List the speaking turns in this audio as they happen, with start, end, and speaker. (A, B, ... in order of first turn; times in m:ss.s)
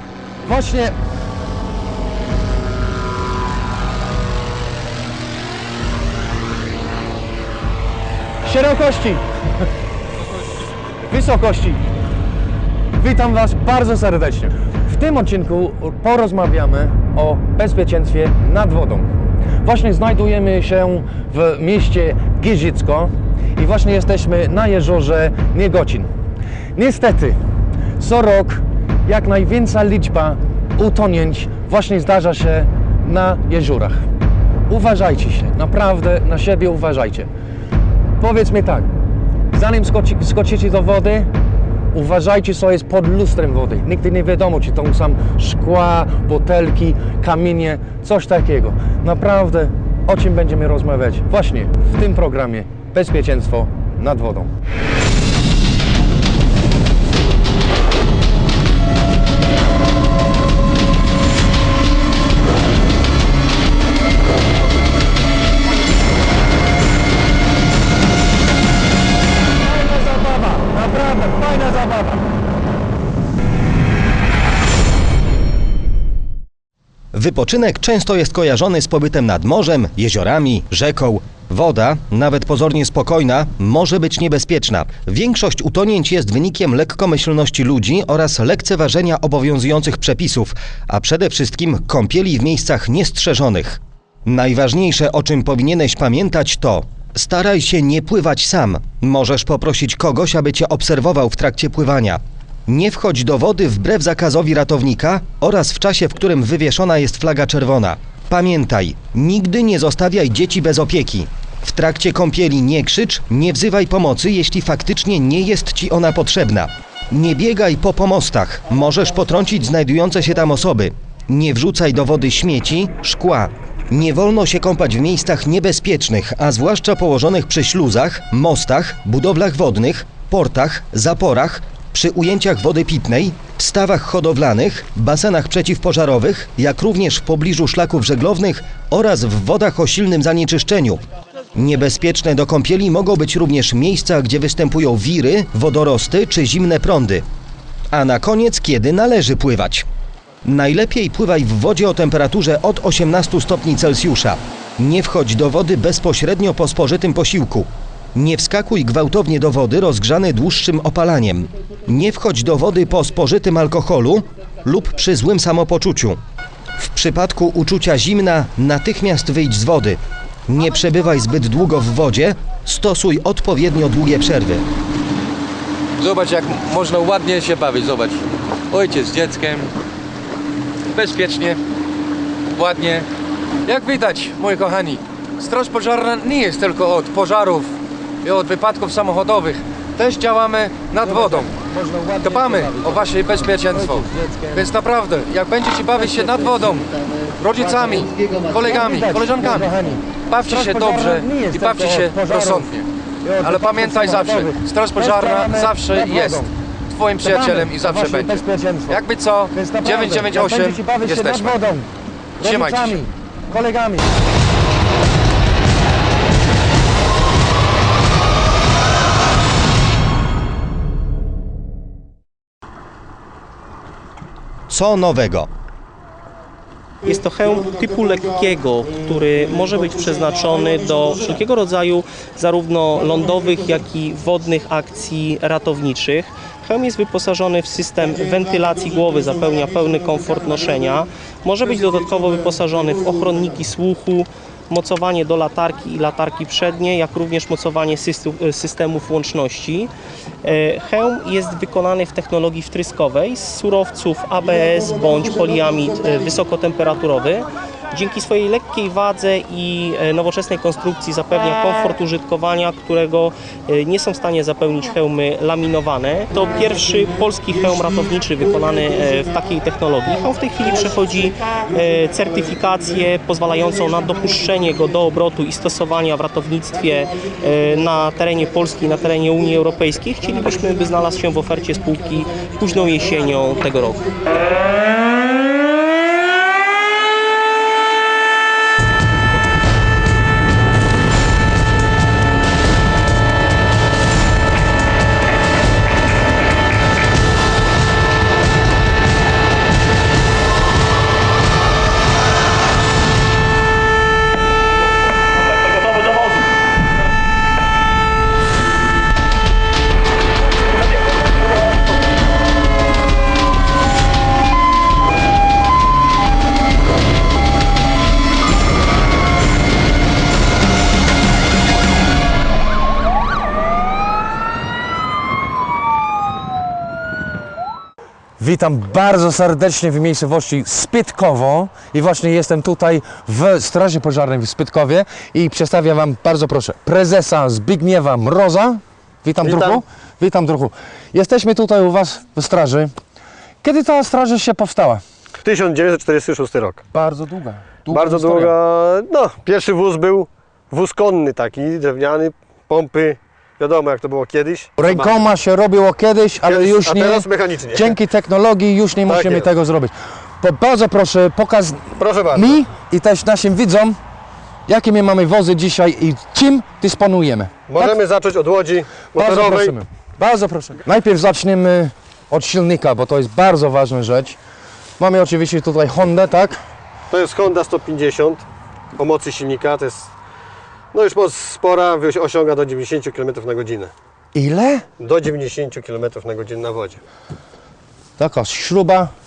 0:00.4-0:01.0 A
0:08.4-0:09.7 A
0:11.1-0:11.8 A
0:13.0-0:19.1 A
0:19.6-0:26.1 A
0:26.8-0:27.4 A
0:28.0-0:34.1 A
0:34.7-0:37.3 A
0:38.2-0:38.9 A
0:39.5-0:41.3 A
0:41.9-0:54.5 A
1:09.6-1:12.3 A
1:17.1-2:21.0 B
2:21.5-2:27.2 B
2:27.9-2:29.9 B
2:30.4-2:46.2 B
2:46.8-2:54.6 B
2:56.0-2:59.7 C
3:00.9-3:01.6 C
3:02.6-3:03.1 C
3:03.7-3:07.7 C
3:08.2-3:11.5 C
3:11.0-3:14.7 A
3:12.2-3:19.7 C
3:16.0-3:16.4 A
3:17.7-3:22.7 A
3:20.3-3:22.9 C
3:23.2-3:26.5 A
3:23.4-3:31.6 C
3:27.2-3:31.9 A
3:32.4-3:34.1 A
3:32.4-3:33.0 C
3:44.7-3:45.5 B
3:47.0-4:09.9 D
4:10.4-4:44.1 D
5:28.4-5:42.9 A
5:39.4-5:39.8 E
5:43.6-5:45.0 A
5:45.4-5:46.8 E
5:46.9-5:48.5 A
5:47.9-5:55.2 E
5:54.8-6:04.0 A
5:56.4-5:58.0 E
5:59.1-5:59.5 E
6:02.0-6:02.6 E
6:04.7-6:08.0 A
6:07.7-6:09.7 E
6:09.2-6:14.4 A
6:15.0-6:16.6 A
6:17.1-6:20.1 E
6:20.9-6:23.9 E
6:24.3-6:24.8 A
6:25.0-6:27.0 E
6:28.2-6:29.1 A